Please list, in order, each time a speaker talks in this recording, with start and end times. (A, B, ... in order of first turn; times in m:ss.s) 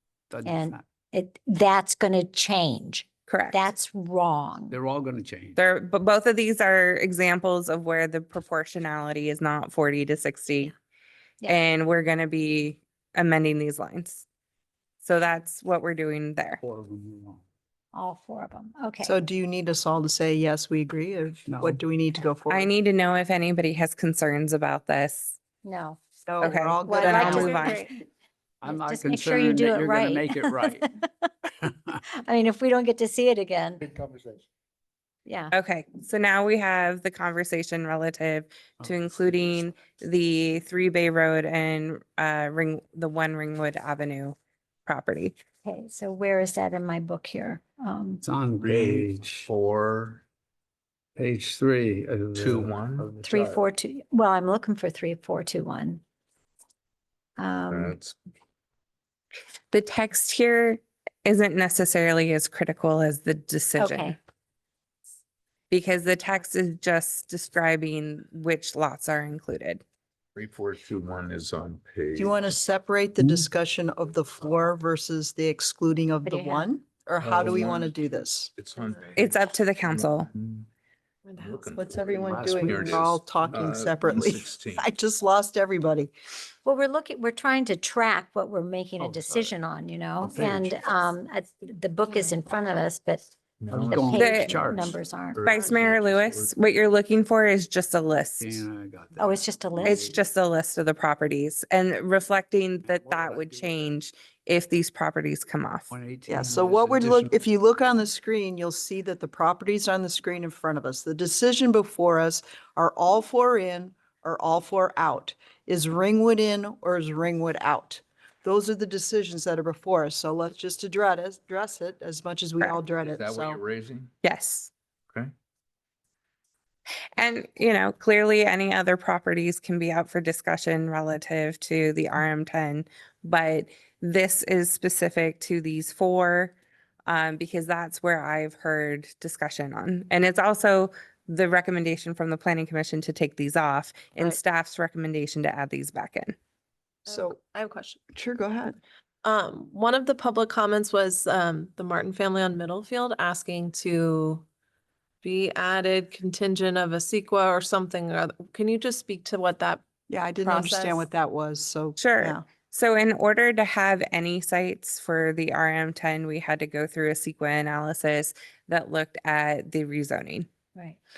0:00.3-0:00.8 A
0:00.4-0:04.8 B
0:03.3-0:03.6 C
0:04.7-0:05.6 A
0:05.6-0:10.7 C
0:11.5-0:14.2 C
0:15.0-0:16.6 C
0:16.6-0:17.4 A
0:17.9-0:19.2 B
0:19.0-0:22.7 D
0:21.5-0:21.8 A
0:22.5-0:25.4 C
0:25.6-0:28.0 B
0:26.3-0:27.8 D
0:26.4-0:27.9 C
0:28.6-0:30.8 A
0:28.6-0:31.2 B
0:31.6-0:32.0 A
0:32.2-0:33.8 B
0:35.3-0:35.5 B
0:35.5-0:45.4 C
0:38.8-0:39.6 A
0:45.6-0:48.2 B
0:48.2-0:49.5 A
0:48.6-0:50.2 E
0:51.2-0:53.6 A
0:52.4-0:53.1 E
0:53.2-0:56.0 B
0:57.4-0:58.0 B
0:57.7-0:58.2 E
0:59.7-1:04.2 C
1:03.8-1:04.2 B
1:05.7-1:09.8 C
1:10.4-1:12.6 E
1:12.2-1:18.5 D
1:16.2-1:16.7 B
1:17.2-1:20.7 E
1:18.8-1:19.2 F
1:19.2-1:20.3 C
1:21.3-1:22.0 F
1:21.4-1:24.9 E
1:21.8-1:26.1 D
1:22.3-1:23.9 A
1:26.6-1:35.5 B
1:29.0-1:29.5 A
1:30.2-1:30.8 A
1:33.6-1:34.6 E
1:33.7-1:35.0 A
1:34.2-1:34.6 C
1:35.4-1:36.5 E
1:35.4-1:38.7 C
1:38.4-1:40.2 A
1:39.2-1:40.1 B
1:39.8-1:45.9 C
1:42.9-1:43.8 A
1:45.9-1:47.3 A
1:46.3-2:03.6 D
2:03.0-2:04.1 E
2:04.2-2:04.7 C
2:07.2-2:16.6 C
2:17.1-2:26.4 C
2:27.1-2:28.0 F
2:27.1-2:27.4 D
2:28.1-2:28.8 D
2:29.2-2:34.4 F
2:35.2-2:39.8 F
2:40.1-2:42.5 D
2:40.4-2:41.1 F
2:42.0-2:50.5 C